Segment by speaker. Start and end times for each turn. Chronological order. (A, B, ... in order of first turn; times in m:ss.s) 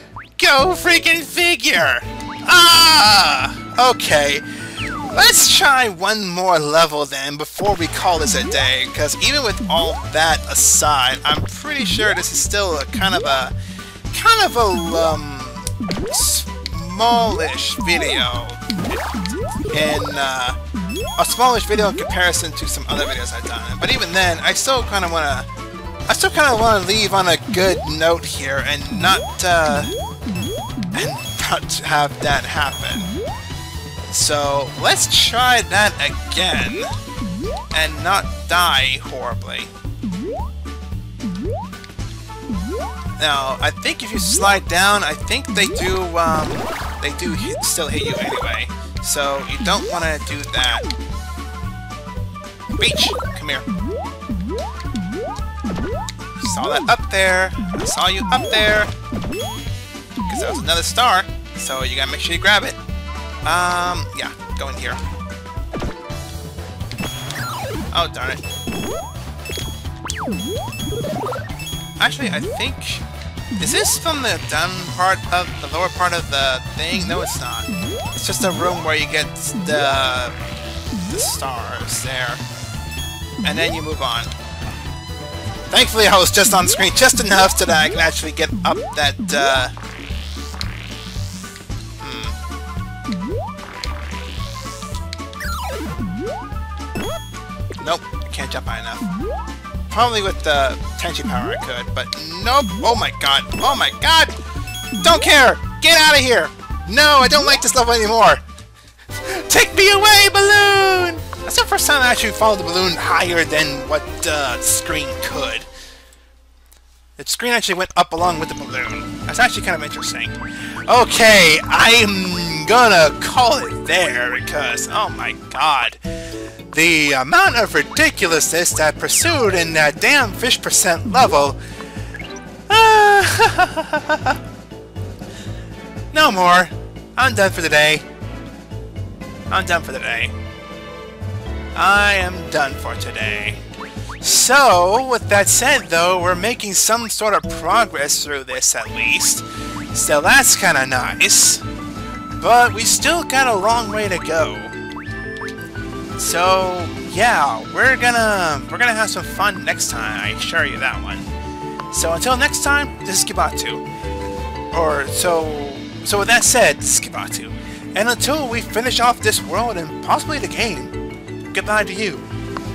0:00.4-0:13.5 A
0:14.1-0:19.0 A
0:19.7-0:20.6 A
0:21.2-0:25.5 A
0:26.1-0:29.9 A
0:30.9-0:33.1 A
0:34.1-0:36.9 A
0:37.7-0:39.7 A
0:43.2-0:50.9 A
0:52.7-0:53.7 A
0:56.4-0:58.9 A
1:00.2-1:02.8 A
1:03.4-1:05.0 A
1:07.9-1:08.4 A
1:12.0-1:13.0 A
1:13.6-1:20.4 A
1:21.0-1:22.4 A
1:23.4-1:24.3 A
1:25.7-1:29.7 A
1:32.0-1:32.4 A
1:37.8-1:39.1 A
1:39.9-1:44.4 A
1:45.0-1:48.4 A
1:49.2-1:55.7 A
1:57.2-2:11.6 A
2:12.7-2:14.4 A
2:16.1-2:18.0 A
2:19.5-2:20.4 A
2:21.8-2:23.6 A
2:24.2-2:31.6 A
2:32.4-2:34.8 A
2:36.2-2:41.3 A
2:41.9-2:43.8 A
2:44.7-2:50.9 A
2:51.5-2:52.3 A